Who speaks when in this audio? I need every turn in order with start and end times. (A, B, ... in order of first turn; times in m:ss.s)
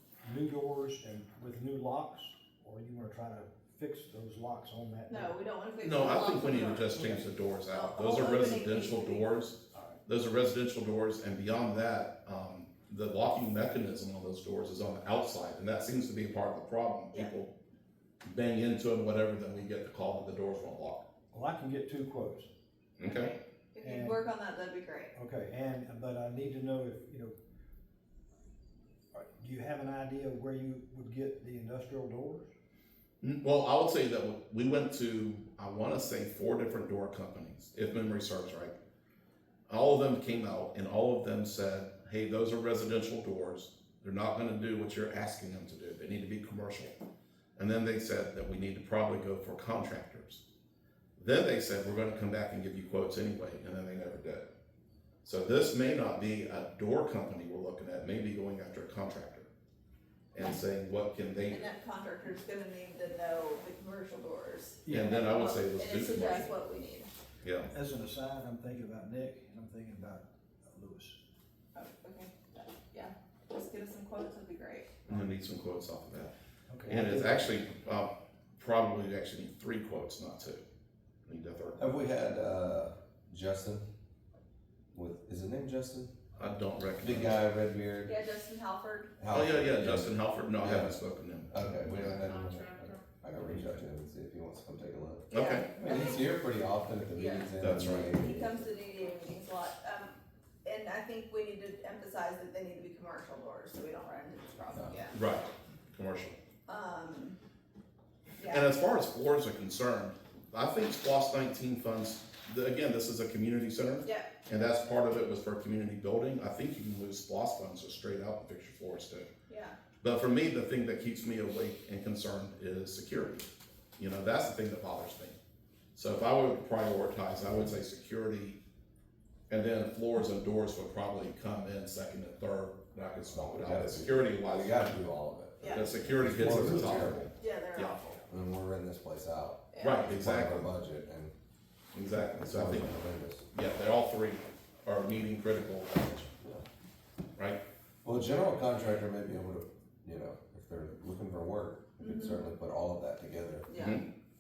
0:00.2-0:05.4 A
0:05.1-0:09.3 B
0:05.8-0:17.5 C
0:18.2-0:21.0 C
0:21.3-0:22.5 A
0:23.0-0:23.3 C
0:23.0-0:25.1 B
0:23.8-0:24.2 A
0:25.2-0:27.3 A
0:29.1-0:32.5 A
0:33.2-0:38.8 C
0:39.7-0:46.9 C
0:47.6-0:50.4 C
0:51.2-0:54.5 C
0:55.2-0:59.5 C
1:00.3-1:01.6 C
1:01.5-1:07.1 B
1:04.9-1:05.5 A
1:04.9-1:06.5 C
1:07.4-1:07.7 C
1:07.7-1:11.2 A
1:11.8-1:14.9 B
1:15.1-1:16.3 C
1:16.7-1:17.5 A
1:16.9-1:20.6 C
1:21.3-1:22.0 C
1:21.8-1:23.8 D
1:24.9-1:26.1 D
1:26.4-1:27.4 C
1:27.0-1:28.1 D
1:28.0-1:29.1 B
1:29.2-1:31.0 D
1:29.3-1:31.5 C
1:31.5-1:35.3 D
1:35.3-1:35.7 C
1:35.3-1:36.3 B
1:35.8-1:38.6 D
1:37.1-1:45.2 B
1:37.6-1:38.2 C
1:45.1-1:46.4 C
1:46.7-1:47.4 B
1:48.4-1:48.7 B
1:48.5-1:59.3 C
1:59.5-1:59.8 B
2:00.0-2:05.4 C
2:06.0-2:08.6 C
2:09.5-2:15.0 C
2:13.3-2:17.3 D
2:15.6-2:16.0 B
2:15.7-2:18.0 C
2:16.5-2:17.2 A
2:17.4-2:18.2 B
2:18.3-2:21.3 D
2:19.7-2:20.1 B
2:19.8-2:20.7 C
2:21.9-2:26.4 C
2:22.4-2:23.5 D
2:28.0-2:33.7 D
2:32.0-2:32.4 B
2:33.7-2:34.0 B
2:33.8-2:34.0 C